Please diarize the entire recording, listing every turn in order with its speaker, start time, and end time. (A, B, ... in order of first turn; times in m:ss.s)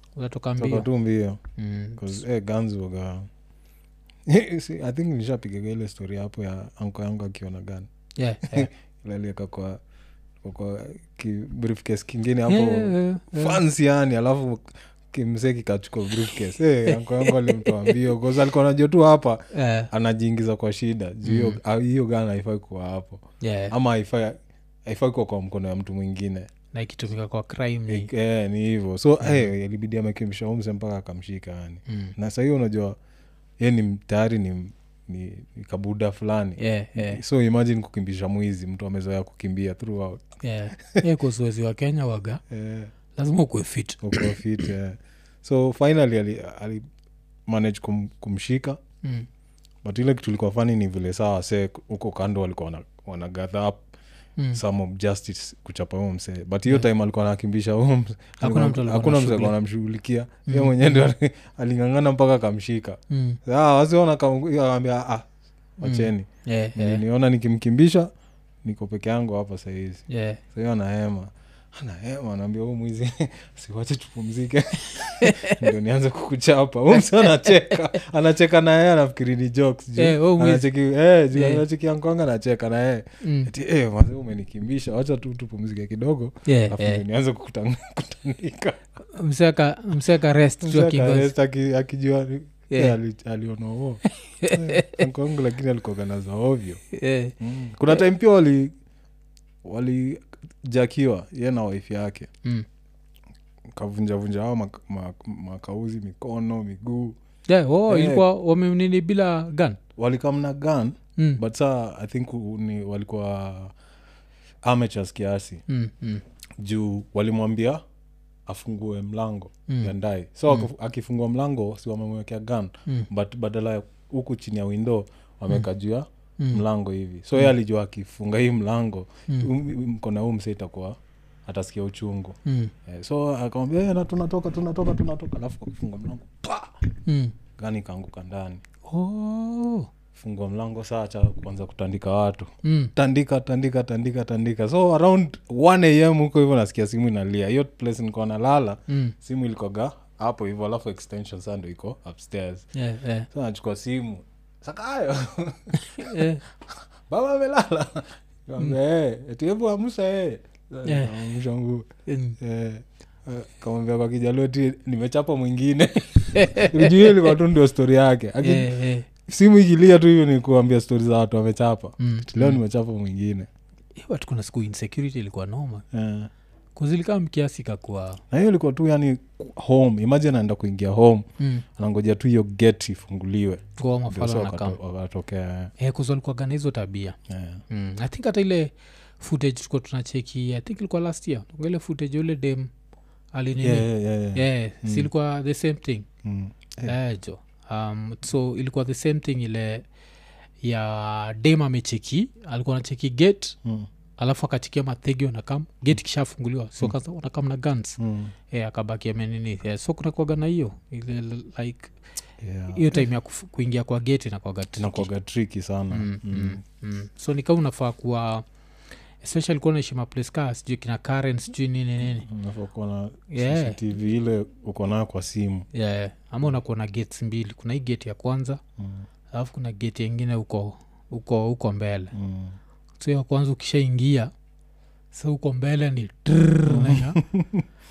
0:00.2-0:00.9 A
0:00.6-0:01.4 B
0:01.6-0:02.2 A
0:02.0-0:03.3 B
0:04.2-0:07.9 B
0:08.2-0:08.7 A
0:08.5-0:09.8 B
0:10.4-0:26.5 B
0:12.5-0:13.6 A
0:16.9-0:17.9 A
0:19.5-0:19.9 A
0:21.2-0:21.6 A
0:23.4-0:23.7 A
0:26.7-0:28.1 A
0:27.9-0:33.0 B
0:31.9-0:32.1 A
0:33.6-0:40.2 B
0:36.6-0:37.2 A
0:40.4-0:42.4 A
0:42.5-0:42.9 B
0:43.2-0:44.4 A
0:44.0-0:46.8 B
0:47.5-0:48.8 B
0:49.8-0:53.8 B
0:54.5-1:05.3 B
0:58.4-0:59.6 A
1:00.5-1:01.0 A
1:03.1-1:03.4 A
1:05.8-1:08.1 B
1:05.8-1:07.0 A
1:08.6-1:28.8 B
1:10.1-1:10.4 A
1:15.2-1:15.7 A
1:16.9-1:18.0 A
1:20.0-1:20.7 A
1:21.3-1:21.6 A
1:23.2-1:23.5 A
1:26.4-1:27.0 A
1:29.1-1:31.3 A
1:30.6-1:36.8 B
1:32.7-1:33.0 A
1:34.1-1:35.1 A
1:36.9-1:37.4 A
1:37.4-1:38.7 B
1:39.6-1:42.3 B
1:43.7-1:47.2 B
1:47.5-1:49.8 A
1:47.9-1:48.2 B
1:50.0-1:53.7 B
1:54.6-1:55.6 B
1:55.7-1:56.2 A
1:56.6-1:57.8 B
1:58.4-2:16.7 B
1:59.7-1:59.9 A
2:12.4-2:12.7 A
2:17.1-2:17.4 A
2:17.6-2:18.6 B
2:18.8-2:19.9 A
2:20.1-2:32.6 B
2:22.6-2:22.9 A
2:28.9-2:29.1 A
2:32.7-2:33.3 A
2:33.3-2:41.9 B
2:35.8-2:36.4 A
2:40.8-2:41.2 A
2:42.1-2:42.4 A
2:42.4-2:53.5 B
2:46.2-2:47.4 A
2:48.4-2:49.1 A
2:52.0-2:52.6 A
2:54.0-2:55.8 A
2:55.9-2:56.3 B
2:56.8-2:58.2 A
2:58.3-3:01.2 B
3:01.4-3:01.6 A
3:01.8-3:05.7 B
3:03.8-3:04.8 A
3:05.8-3:07.2 A
3:07.3-3:07.6 B
3:07.7-3:12.7 A
3:13.3-3:16.1 A
3:13.6-3:15.1 B
3:16.2-3:17.0 B
3:16.9-3:19.8 A
3:20.6-3:23.6 A
3:24.2-3:28.0 A
3:28.0-3:28.3 B
3:28.5-3:31.9 A
3:32.4-3:33.1 B
3:32.7-3:35.1 A
3:34.8-3:36.6 B
3:35.9-3:38.4 A
3:39.2-3:42.3 A
3:42.2-3:45.7 B
3:43.3-3:43.8 A
3:45.7-3:48.6 A
3:48.8-3:49.0 B
3:49.3-3:52.1 A
3:52.1-3:52.6 B
3:53.0-3:54.3 A
3:55.1-3:57.2 A
3:56.7-3:57.6 B